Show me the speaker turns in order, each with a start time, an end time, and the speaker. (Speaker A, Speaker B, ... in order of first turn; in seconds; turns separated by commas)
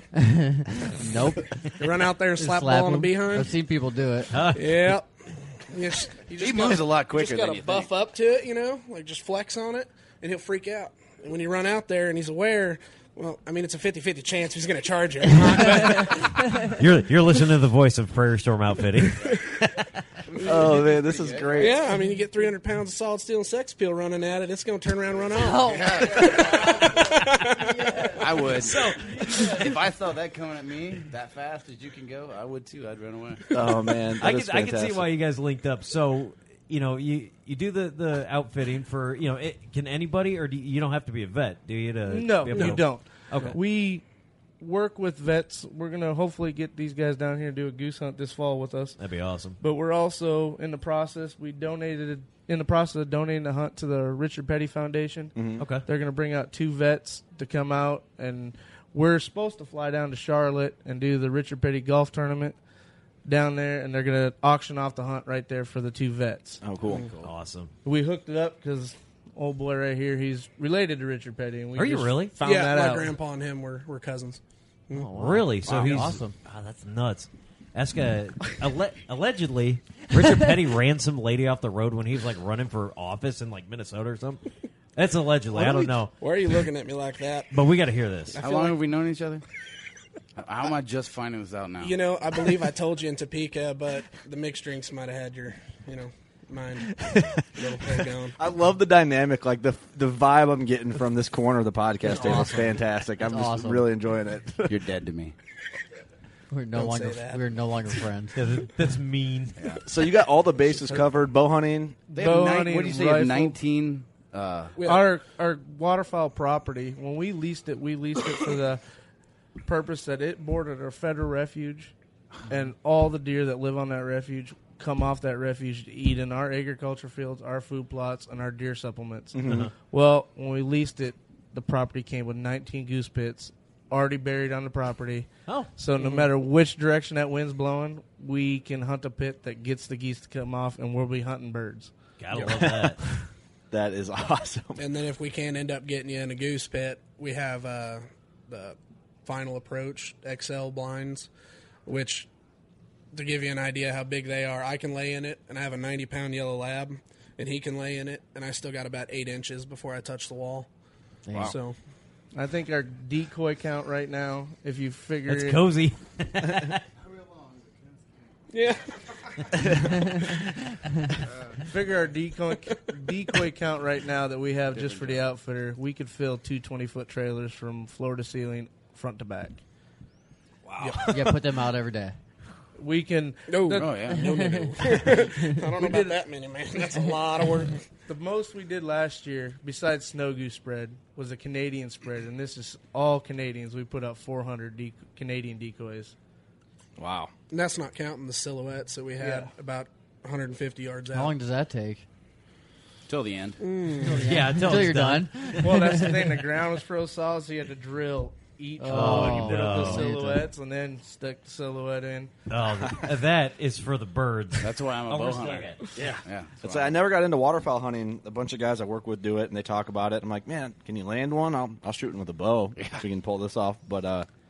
Speaker A: 0.1-1.7, Speaker B: 1.8-3.6, Speaker A: 2.3-4.6, Speaker C: 4.3-5.0, Speaker B: 4.4-5.1, Speaker B: 5.7-16.7, Speaker D: 6.4-7.9, Speaker C: 16.8-19.9, Speaker D: 20.3-21.7, Speaker E: 20.4-21.8, Speaker B: 21.6-28.1, Speaker A: 25.4-25.9, Speaker D: 25.6-26.9, Speaker D: 28.2-33.5, Speaker C: 28.6-29.6, Speaker E: 33.5-35.1, Speaker C: 34.2-43.6, Speaker F: 42.1-44.0, Speaker F: 44.6-49.0, Speaker C: 49.0-49.6, Speaker F: 49.6-62.6, Speaker E: 55.4-55.6, Speaker C: 55.6-55.9, Speaker F: 63.3-66.6, Speaker E: 66.6-67.1, Speaker D: 66.8-67.3, Speaker C: 67.2-67.7, Speaker F: 67.8-73.2, Speaker C: 71.8-72.3, Speaker B: 72.4-75.1, Speaker A: 74.9-76.4, Speaker C: 75.2-84.4, Speaker E: 75.7-76.0, Speaker C: 85.0-86.1, Speaker B: 85.5-87.7, Speaker C: 87.5-88.4, Speaker B: 88.3-88.8, Speaker D: 88.4-89.4, Speaker D: 90.4-92.0, Speaker B: 91.8-98.4, Speaker E: 97.0-104.8, Speaker A: 102.0-103.9, Speaker D: 104.7-105.3, Speaker A: 106.5-108.4, Speaker B: 106.7-107.9, Speaker C: 108.3-109.6, Speaker D: 109.6-109.8, Speaker E: 109.9-112.0, Speaker F: 112.1-113.6, Speaker D: 112.1-114.8, Speaker B: 114.8-115.1, Speaker F: 114.8-118.8, Speaker F: 119.7-121.9, Speaker F: 122.5-141.9, Speaker E: 129.3-129.7, Speaker C: 142.2-143.0, Speaker E: 142.4-142.8, Speaker E: 143.7-144.8, Speaker B: 144.8-151.3, Speaker B: 151.9-152.3, Speaker B: 153.1-160.7, Speaker A: 161.3-161.6, Speaker B: 161.3-161.8, Speaker F: 162.3-165.7, Speaker C: 165.3-166.8, Speaker B: 168.5-169.7, Speaker F: 171.6-179.6, Speaker D: 174.7-175.2, Speaker A: 181.0-182.2, Speaker F: 182.8-184.1, Speaker B: 183.5-187.8, Speaker D: 183.7-184.3, Speaker A: 184.2-184.8, Speaker F: 185.8-186.2, Speaker F: 188.1-196.1, Speaker E: 197.0-197.3, Speaker B: 197.5-201.4, Speaker F: 199.2-199.5, Speaker A: 201.1-202.1, Speaker D: 203.1-203.6, Speaker B: 203.6-204.5, Speaker A: 204.0-206.0, Speaker C: 204.2-205.9, Speaker F: 205.5-212.3, Speaker A: 208.8-210.5, Speaker C: 208.9-210.1, Speaker C: 212.5-215.8, Speaker D: 214.6-217.0, Speaker E: 216.0-224.3